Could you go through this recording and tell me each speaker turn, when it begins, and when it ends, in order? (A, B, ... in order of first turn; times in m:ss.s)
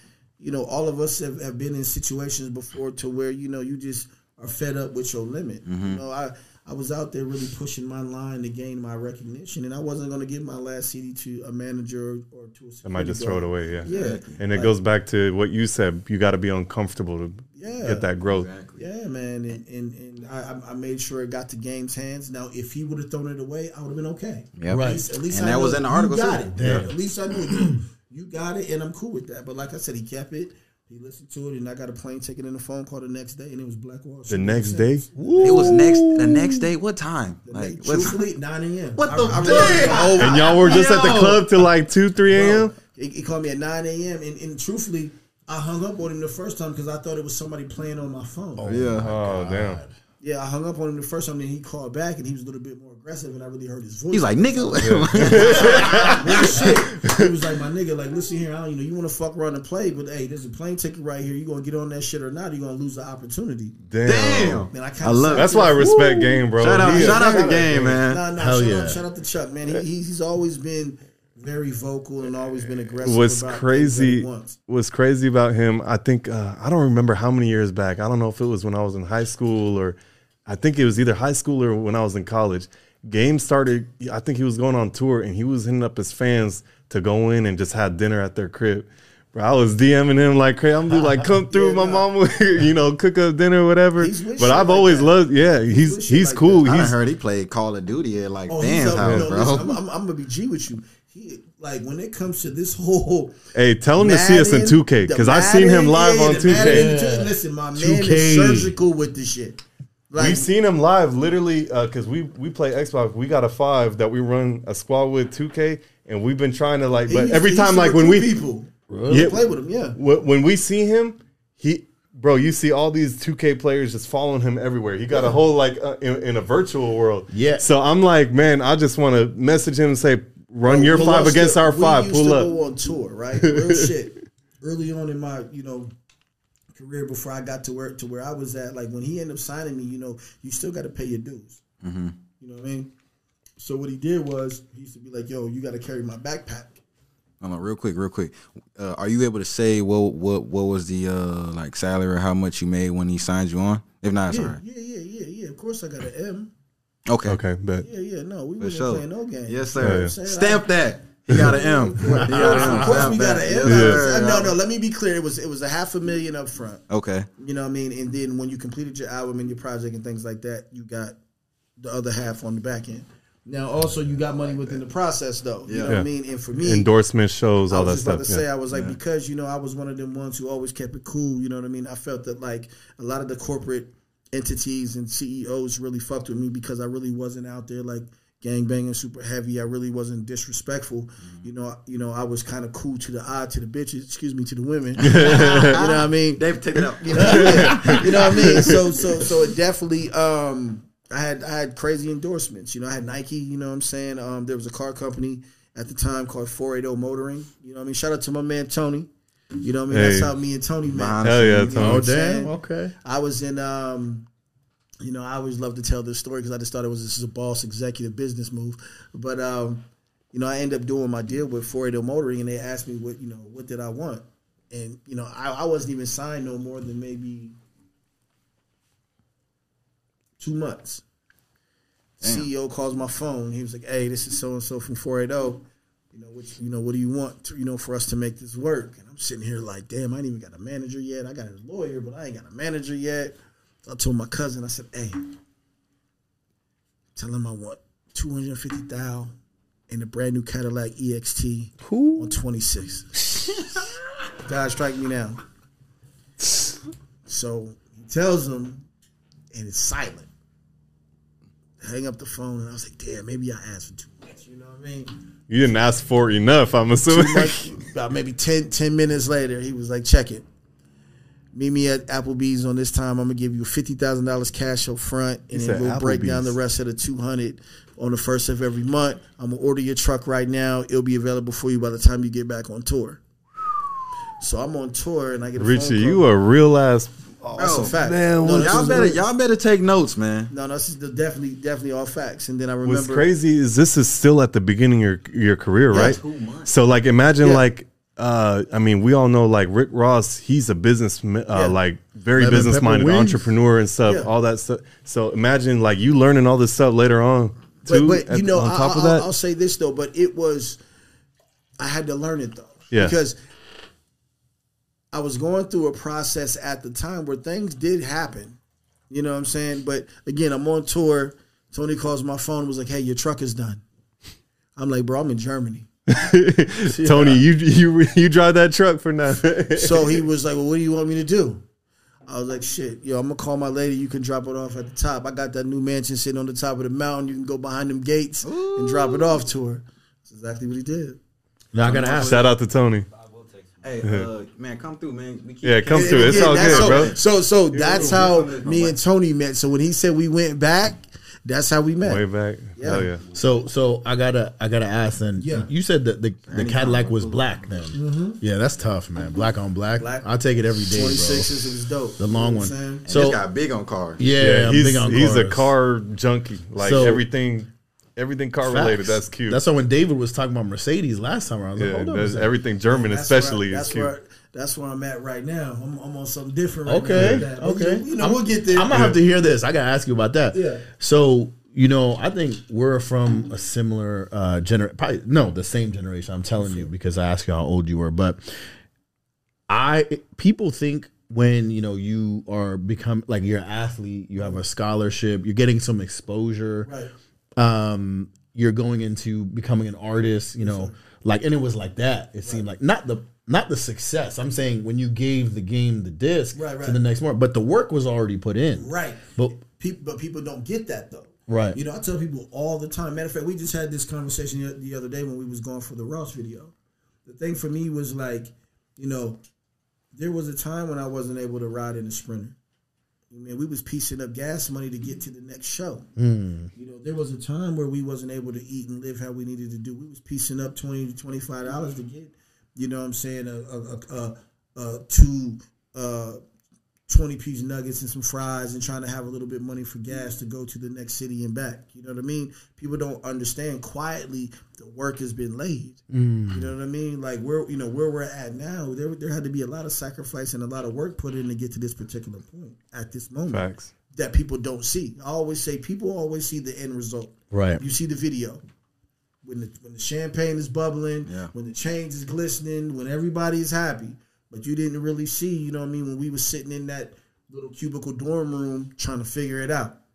0:00.4-0:14.8 A
0:05.7-0:06.0 B
0:12.9-0:18.5 C
0:13.8-0:14.4 B
0:17.6-0:18.1 A
0:18.2-0:18.8 B
0:18.7-0:35.8 A
0:24.6-0:26.9 B
0:24.7-0:25.0 D
0:26.6-0:26.9 D
0:34.3-0:35.0 C
0:35.2-0:36.7 D
0:35.4-0:38.2 B
0:37.5-0:40.9 A
0:39.0-0:41.4 B
0:39.1-0:41.2 D
0:40.1-0:42.7 C
0:42.3-0:48.8 A
0:48.6-0:49.9 D
0:48.6-0:49.1 B
0:49.0-0:49.8 C
0:50.2-1:03.8 A
0:54.1-0:56.7 B
0:54.8-0:56.4 C
0:57.0-0:57.3 C
1:03.9-1:04.7 C
1:04.0-1:05.6 B
1:04.7-1:05.9 A
1:05.3-1:08.0 C
1:05.8-1:06.4 D
1:06.6-1:08.2 B
1:06.7-1:14.6 A
1:08.4-1:09.0 D
1:13.0-1:37.0 C
1:31.5-1:32.1 A
1:34.0-1:36.8 A
1:36.6-1:39.8 B
1:38.5-1:43.4 A
1:39.0-1:39.3 C
1:43.6-1:46.9 C
1:44.0-1:50.5 A
1:46.5-1:48.8 D
1:50.2-1:58.4 C
1:57.1-2:00.0 A
1:58.9-1:59.3 D
1:59.1-1:59.4 C
2:00.0-2:12.5 C
2:07.3-2:07.7 D
2:10.6-2:15.9 A
2:13.4-2:13.9 C
2:16.7-2:21.6 A
2:21.8-2:22.2 B
2:22.4-2:22.9 A
2:23.6-2:26.8 A
2:27.4-2:34.6 B
2:34.3-2:36.5 A
2:37.1-2:37.4 B
2:37.3-2:37.9 C
2:37.8-2:46.8 A
2:38.6-2:44.6 B
2:39.8-2:40.1 C
2:42.0-2:43.0 D
2:43.6-2:44.1 C
2:46.9-2:47.3 B
2:47.4-2:51.2 A
2:51.8-2:56.9 A
2:54.4-2:54.8 B
2:55.7-2:56.0 B
2:55.9-2:58.4 C
2:57.7-3:34.3 A
2:58.7-2:59.0 B
3:15.0-3:18.8 B
3:15.0-3:15.8 C
3:17.3-3:18.7 C
3:17.7-3:18.0 D
3:29.9-3:30.3 C
3:30.9-3:31.7 B
3:31.2-3:32.0 C
3:31.7-3:33.0 D
3:35.0-3:47.6 A
3:50.4-3:51.0 A
3:52.2-4:05.3 A
3:52.2-3:52.5 B
4:07.2-4:09.3 A
4:09.9-4:15.4 A
4:11.8-4:12.3 D
4:17.3-4:18.9 A
4:19.5-4:20.3 A
4:21.8-4:25.1 A
4:25.5-4:27.7 C
4:27.1-4:30.5 A
4:31.5-4:43.2 A
4:35.5-4:36.6 C
4:44.4-4:46.3 A
4:45.6-4:49.2 C
4:47.6-4:49.2 A
4:47.6-4:50.5 B
4:50.5-4:53.3 A
4:52.8-5:09.2 C
4:55.9-4:56.7 B
4:55.9-4:56.2 A
4:57.4-4:57.6 A
5:01.5-5:01.8 A
5:02.4-5:03.5 D
5:04.0-5:04.3 A
5:07.9-5:10.8 A
5:11.8-5:13.4 A
5:12.9-5:13.2 C
5:15.1-5:18.6 A
5:19.1-5:23.8 A
5:24.8-5:25.9 A
5:26.1-5:30.2 C
5:26.9-5:27.4 A
5:29.7-5:31.6 A
5:32.3-5:41.2 A
5:38.4-5:39.4 B
5:41.7-5:42.4 D
5:41.8-5:42.5 B
5:42.2-5:43.1 C
5:43.1-5:47.2 B
5:44.0-5:44.3 C
5:45.6-5:47.2 C
5:45.9-5:52.2 A
5:47.7-5:48.2 C
5:47.8-5:49.0 B
5:52.0-5:53.2 C
5:52.8-5:53.1 A
5:52.9-6:01.6 D
5:55.4-5:55.7 A
5:56.5-5:57.9 B
5:57.9-5:58.4 A
6:00.0-6:03.1 A
6:02.2-6:03.4 D
6:03.0-6:04.2 B
6:04.2-6:05.7 D
6:04.4-6:09.6 C
6:06.8-6:07.2 D
6:08.6-6:12.5 D
6:11.8-6:14.1 C
6:12.9-6:19.0 A
6:16.9-6:28.7 D
6:17.1-6:17.5 C
6:18.9-6:19.2 C
6:20.5-6:20.8 A
6:26.6-6:26.9 A
6:29.7-6:36.9 D
6:36.8-6:37.1 A
6:37.6-6:49.6 D
6:40.6-6:40.9 A
6:46.5-6:47.0 A
6:48.8-6:56.7 A
6:51.5-6:51.8 D
6:57.2-6:59.4 A
7:00.1-7:02.6 A
7:03.3-7:06.1 A
7:06.2-7:06.7 D
7:06.8-7:16.4 A
7:17.1-7:38.6 A
7:26.1-7:26.7 D
7:33.5-7:33.9 C
7:37.5-7:37.8 D
7:39.4-7:50.0 A
7:41.2-7:41.5 B